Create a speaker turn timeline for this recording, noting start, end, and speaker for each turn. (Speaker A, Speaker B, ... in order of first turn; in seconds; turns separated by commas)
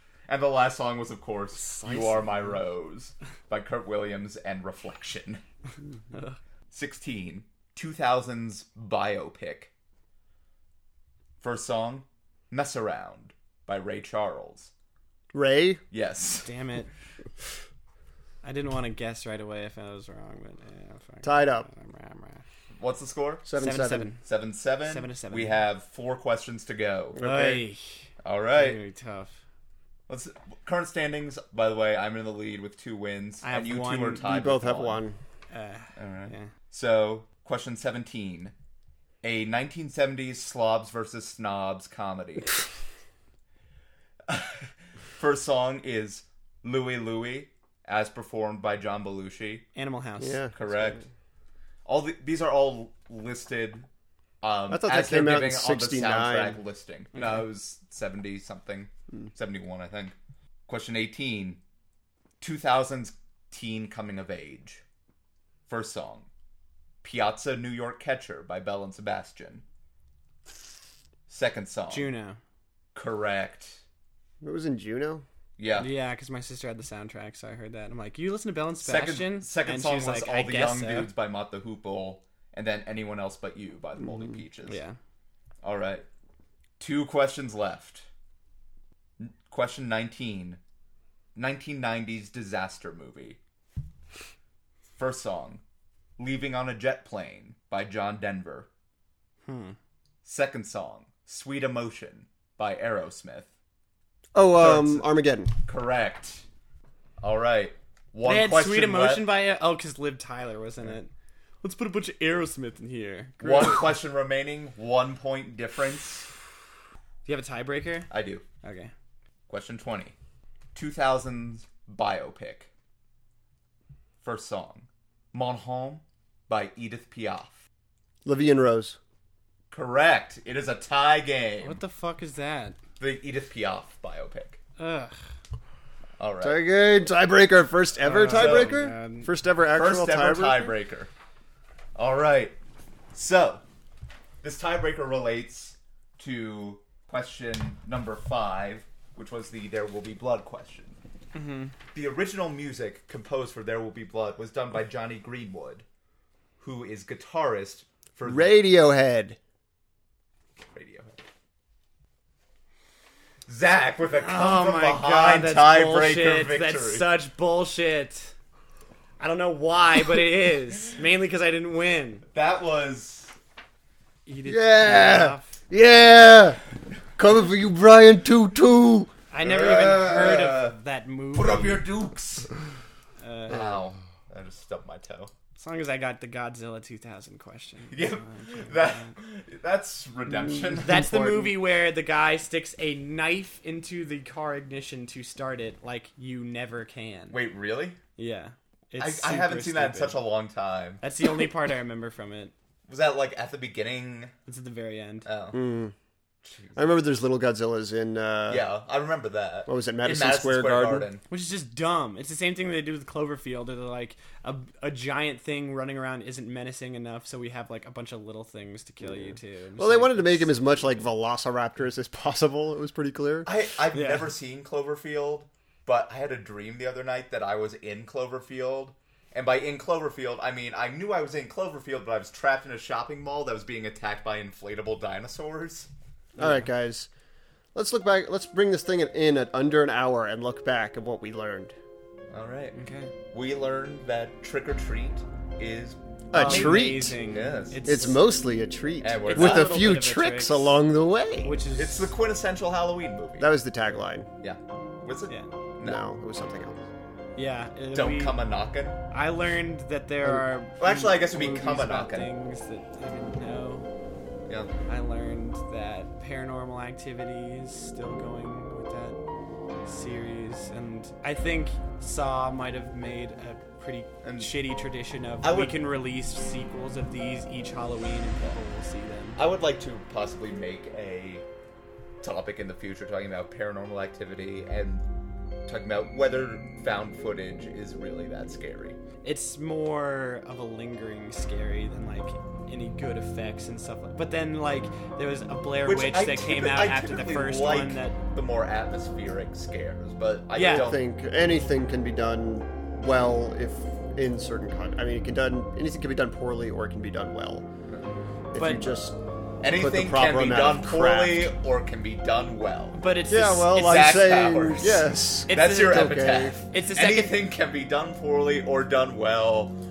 Speaker A: 0.3-5.4, Speaker B: 1.5-2.5, Speaker B: 6.1-6.4, Speaker A: 6.7-9.7, Speaker A: 11.4-14.7, Speaker C: 15.3-15.8, Speaker A: 15.9-16.5, Speaker B: 16.4-16.9, Speaker B: 18.4-22.4, Speaker C: 21.2-21.7, Speaker A: 22.8-23.4, Speaker C: 23.4-24.1, Speaker B: 23.6-24.2, Speaker A: 24.2-27.2, Speaker B: 24.9-25.6, Speaker C: 27.1-27.6, Speaker B: 27.2-29.4, Speaker A: 28.2-28.8, Speaker A: 30.1-35.0, Speaker B: 33.4-34.2, Speaker C: 34.2-35.2, Speaker B: 35.5-36.5, Speaker A: 36.0-38.5, Speaker A: 39.2-42.5, Speaker A: 44.3-49.7, Speaker B: 49.7-50.4, Speaker C: 50.2-51.0, Speaker A: 50.5-51.0, Speaker A: 51.8-53.9, Speaker A: 54.4-60.1, Speaker C: 54.7-56.6, Speaker B: 57.1-57.4, Speaker A: 60.7-61.6, Speaker A: 62.4-64.8, Speaker A: 65.7-66.3, Speaker A: 67.0-69.6, Speaker A: 71.3-72.1, Speaker B: 71.9-72.4, Speaker A: 72.9-73.8, Speaker C: 74.4-75.2, Speaker A: 75.6-75.9, Speaker B: 75.8-81.1, Speaker A: 78.8-84.8, Speaker B: 84.7-85.0, Speaker A: 85.6-86.0, Speaker A: 86.8-88.1, Speaker A: 89.2-90.6, Speaker A: 91.3-93.4, Speaker A: 95.0-95.6, Speaker A: 96.2-98.7, Speaker B: 99.5-99.8, Speaker A: 100.2-103.5, Speaker C: 104.3-105.5, Speaker A: 104.6-105.1, Speaker A: 105.7-106.4, Speaker A: 107.2-109.3, Speaker B: 108.2-111.1, Speaker B: 111.6-113.8, Speaker A: 113.4-116.3, Speaker B: 117.2-118.1, Speaker A: 118.1-118.4, Speaker B: 118.6-118.9, Speaker A: 119.5-120.1, Speaker A: 120.7-122.7, Speaker A: 124.2-127.6, Speaker C: 128.2-129.0, Speaker A: 129.7-131.8, Speaker B: 131.6-132.8, Speaker A: 133.0-134.6, Speaker B: 134.8-135.1, Speaker A: 136.2-136.6, Speaker C: 136.4-140.8, Speaker B: 138.0-139.3, Speaker A: 138.3-138.8, Speaker A: 139.7-141.1, Speaker A: 141.9-142.6, Speaker A: 143.1-143.6, Speaker A: 144.4-151.0, Speaker B: 151.3-151.7, Speaker A: 151.9-155.8, Speaker A: 156.6-158.5, Speaker C: 158.2-159.4, Speaker A: 160.6-161.2, Speaker A: 163.5-167.1, Speaker B: 164.1-168.3, Speaker B: 169.2-172.2, Speaker A: 172.3-173.3, Speaker B: 174.2-175.5, Speaker C: 174.4-176.6, Speaker C: 177.2-179.1, Speaker B: 179.3-181.8, Speaker A: 179.4-180.8, Speaker A: 181.3-182.5, Speaker B: 183.2-183.7, Speaker A: 183.5-185.3, Speaker B: 185.6-189.1, Speaker A: 187.9-191.2, Speaker C: 190.5-191.5, Speaker B: 190.8-197.4, Speaker A: 197.3-198.0, Speaker B: 198.2-200.2, Speaker A: 199.0-201.0, Speaker B: 201.0-202.5, Speaker A: 202.9-204.3, Speaker B: 204.5-205.3, Speaker A: 205.2-205.6, Speaker C: 205.5-205.9, Speaker A: 206.4-206.9, Speaker C: 206.8-208.7, Speaker A: 208.5-211.2, Speaker C: 209.7-211.1, Speaker B: 211.3-221.1, Speaker C: 219.0-223.5, Speaker A: 223.4-235.9, Speaker B: 223.9-224.3, Speaker C: 236.3-237.1, Speaker C: 237.7-241.7, Speaker A: 242.3-247.9, Speaker B: 242.7-243.1, Speaker C: 246.3-247.2, Speaker B: 246.3-248.2, Speaker C: 247.8-251.6, Speaker A: 249.0-250.0, Speaker B: 249.2-250.7, Speaker B: 251.4-252.1, Speaker A: 251.7-253.5, Speaker C: 253.4-254.3, Speaker A: 254.4-256.1, Speaker C: 255.8-256.8, Speaker B: 257.4-258.4, Speaker A: 257.9-259.0, Speaker B: 259.1-263.9, Speaker A: 260.8-262.3, Speaker B: 264.9-269.2, Speaker B: 269.8-279.4, Speaker A: 274.2-274.5, Speaker A: 275.4-275.8, Speaker A: 279.4-281.4, Speaker A: 282.2-285.0, Speaker A: 285.7-289.0, Speaker B: 289.2-298.2, Speaker A: 295.8-301.0, Speaker B: 300.5-300.9, Speaker C: 300.6-307.6, Speaker C: 308.5-309.2, Speaker B: 308.5-308.9, Speaker A: 309.6-313.0, Speaker C: 309.7-311.5, Speaker B: 312.9-314.0, Speaker C: 313.3-316.6, Speaker A: 313.7-319.8, Speaker B: 315.5-317.4